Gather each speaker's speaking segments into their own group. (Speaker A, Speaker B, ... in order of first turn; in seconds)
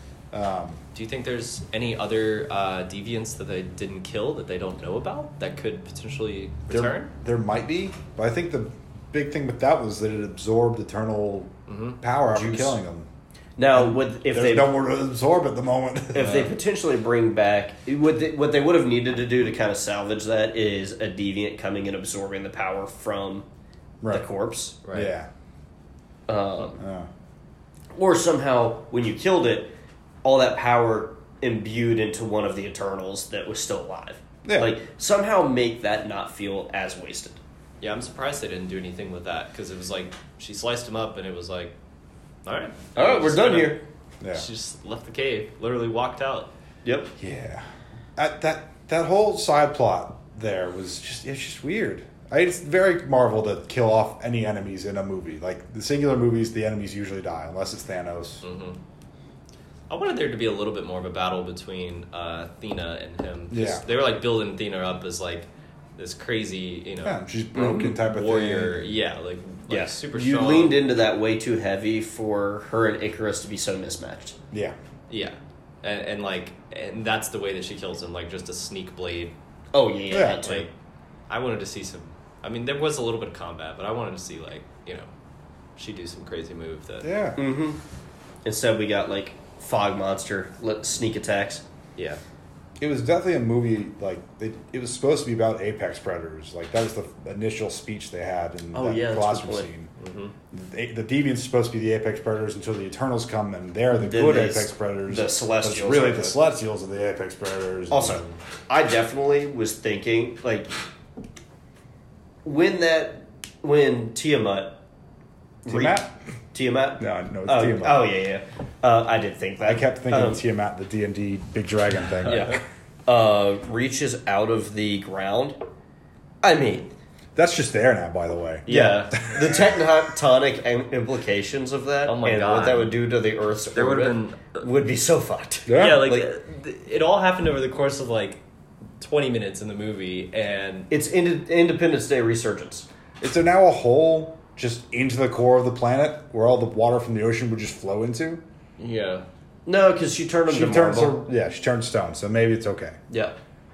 Speaker A: 0.3-0.8, 6.7-13.1, 13.7-16.5, 24.0-24.3, 24.9-25.3, 26.8-27.1, 34.4-34.7, 44.2-44.5, 47.2-47.6, 48.2-58.4, 63.5-63.8, 67.0-69.0, 80.1-80.5, 87.0-87.4, 92.8-99.9, 100.5-108.2, 115.7-116.1, 117.0-118.1, 119.6-122.6, 127.3-129.7, 135.7-136.2, 143.2-148.4, 150.5-153.0
Speaker B: 0.9-7.1, 11.7-12.0, 24.8-25.1, 37.8-41.7, 42.4-43.8, 44.3-46.5, 58.4-58.8, 59.9-70.8, 75.1-79.3, 80.4-80.7, 81.3-85.1, 85.8-87.1, 92.0-92.2, 100.0-100.3, 122.2-122.6, 128.7-129.2, 132.1-133.0, 133.7-134.6, 135.7-138.4, 139.0-140.9, 148.8-149.3
Speaker C: 12.3-12.8, 13.6-14.7, 16.1-23.5, 24.1-24.8, 26.3-26.8, 27.9-29.7, 30.2-37.4, 43.0-43.8, 46.8-47.1, 67.5-67.9, 69.7-74.4, 79.7-80.7, 87.4-87.8, 88.4-91.6, 98.7-99.7, 103.9-106.4, 107.9-110.7, 112.4-114.8, 115.6-120.4, 122.2-125.6, 126.4-126.9, 128.7-136.3, 140.9-142.9, 149.7-151.2, 153.1-153.3